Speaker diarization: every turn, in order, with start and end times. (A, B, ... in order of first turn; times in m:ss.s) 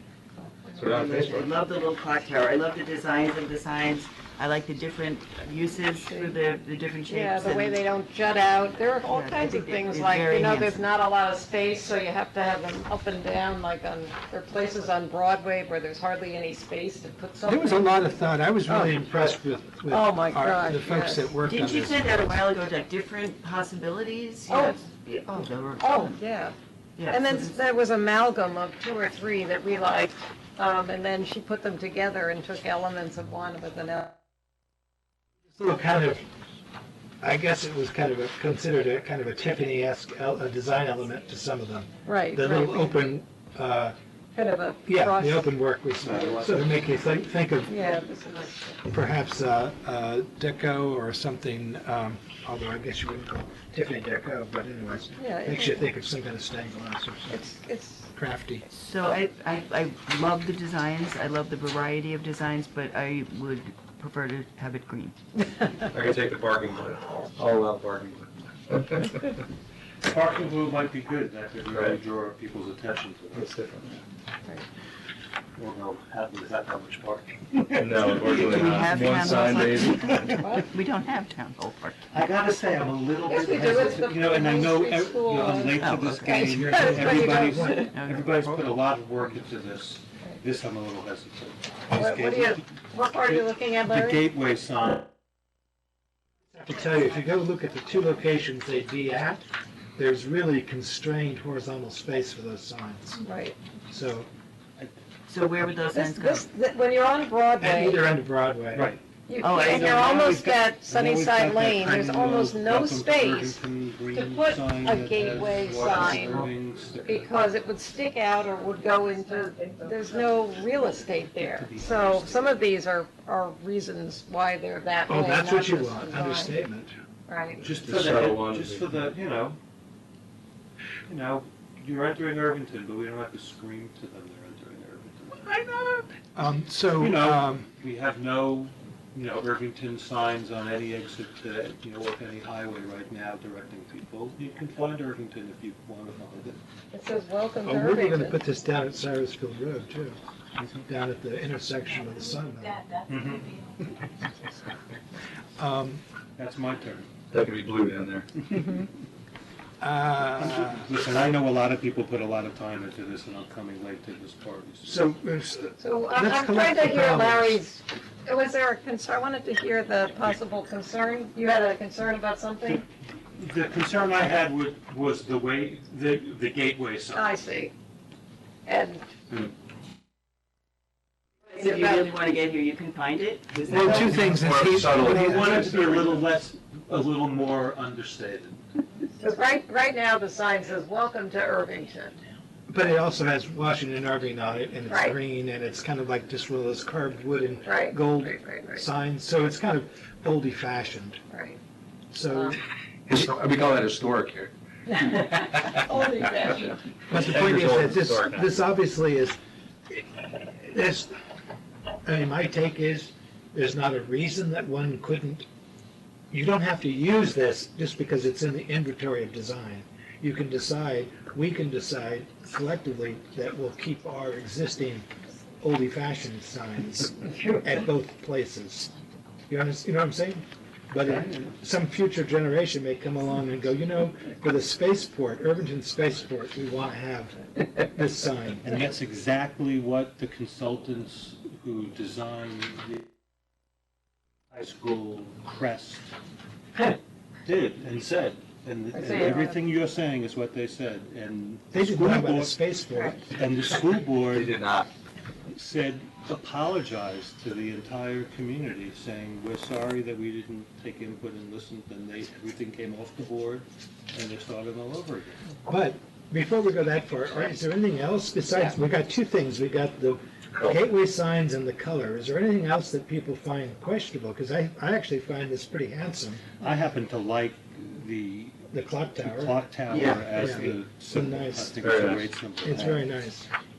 0:00.7-0:01.5 A
0:00.9-0:07.8 B
0:06.0-0:06.4 C
0:07.1-0:19.0 C
0:09.0-0:10.8 B
0:17.4-0:22.2 D
0:19.9-0:21.3 C
0:21.4-0:26.2 B
0:24.5-0:26.6 C
0:27.0-0:27.6 B
0:27.1-0:34.2 C
0:35.5-0:36.2 D
0:37.2-0:44.0 D
0:42.0-0:43.0 C
0:44.3-0:45.5 C
0:44.8-0:47.8 D
0:46.0-0:46.7 E
0:47.7-0:48.8 C
0:48.9-0:57.4 D
0:55.2-0:55.9 C
0:57.3-0:58.1 C
0:58.1-0:58.6 D
0:58.7-1:05.2 B
1:05.9-1:09.3 A
1:10.1-1:13.5 E
1:11.7-1:12.0 A
1:13.3-1:14.0 A
1:15.6-1:19.4 E
1:17.7-1:20.4 A
1:18.4-1:22.0 B
1:19.9-1:20.4 E
1:20.3-1:20.7 C
1:22.1-1:32.6 E
1:23.2-1:27.9 C
1:25.4-1:26.4 B
1:26.4-1:27.9 D
1:27.9-1:28.3 B
1:31.9-1:34.2 C
1:33.3-1:35.1 E
1:36.5-1:43.2 D
1:43.2-1:43.6 C
1:43.9-1:44.3 D
1:45.3-1:46.5 B
1:45.9-1:48.1 C
1:47.6-1:49.0 D
1:48.7-1:49.0 E
1:49.3-1:53.6 C
1:49.4-1:49.8 B
1:49.6-1:57.3 E
1:54.1-1:56.4 C
1:57.0-2:06.6 C
2:01.4-2:02.6 E
2:05.1-2:06.9 D
2:07.3-2:07.6 C
2:07.6-2:09.6 E
2:07.7-2:08.9 A
2:11.1-2:15.5 E
2:16.4-2:17.7 D
2:17.0-2:26.6 E
2:26.9-2:28.4 C
2:27.6-2:30.2 D
2:30.6-2:30.8 E
2:30.8-2:32.9 D
2:33.0-2:33.5 E
2:35.6-2:36.0 D
2:36.4-2:37.1 E
2:37.3-2:38.4 A
2:39.8-2:40.8 D
2:40.4-2:45.1 E
2:44.8-2:47.6 D
2:45.8-2:52.8 C
2:52.7-2:57.3 E
2:57.1-2:57.7 C
2:58.7-2:59.1 C
3:01.5-3:04.3 B
3:01.5-3:02.1 C
3:03.7-3:05.6 D
3:03.7-3:08.6 E
3:04.4-3:06.2 A
3:09.2-3:12.3 C
3:12.7-3:21.2 D
3:14.9-3:15.2 C
3:17.7-3:18.8 C
3:21.3-3:21.6 C
3:22.1-3:23.3 D
3:22.3-3:22.6 C
3:23.1-3:24.5 A
3:24.9-3:26.8 C
3:27.1-3:29.4 D
3:27.1-3:28.5 A
3:29.9-3:31.1 D
3:32.0-3:35.4 D
3:36.3-3:45.0 D
3:45.6-3:48.9 D
3:49.5-3:58.7 D
3:58.6-4:03.1 E
4:04.5-4:06.1 E
4:07.4-4:12.6 E
4:08.9-4:09.6 C
4:11.7-4:13.2 D
4:13.3-4:14.6 E
4:14.3-4:14.9 A
4:15.5-4:25.4 E
4:25.6-4:36.6 D
4:36.6-4:38.6 E
4:38.7-4:39.6 D
4:39.2-4:43.0 E
4:39.9-4:40.7 A
4:40.2-4:43.5 D
4:41.8-4:42.5 A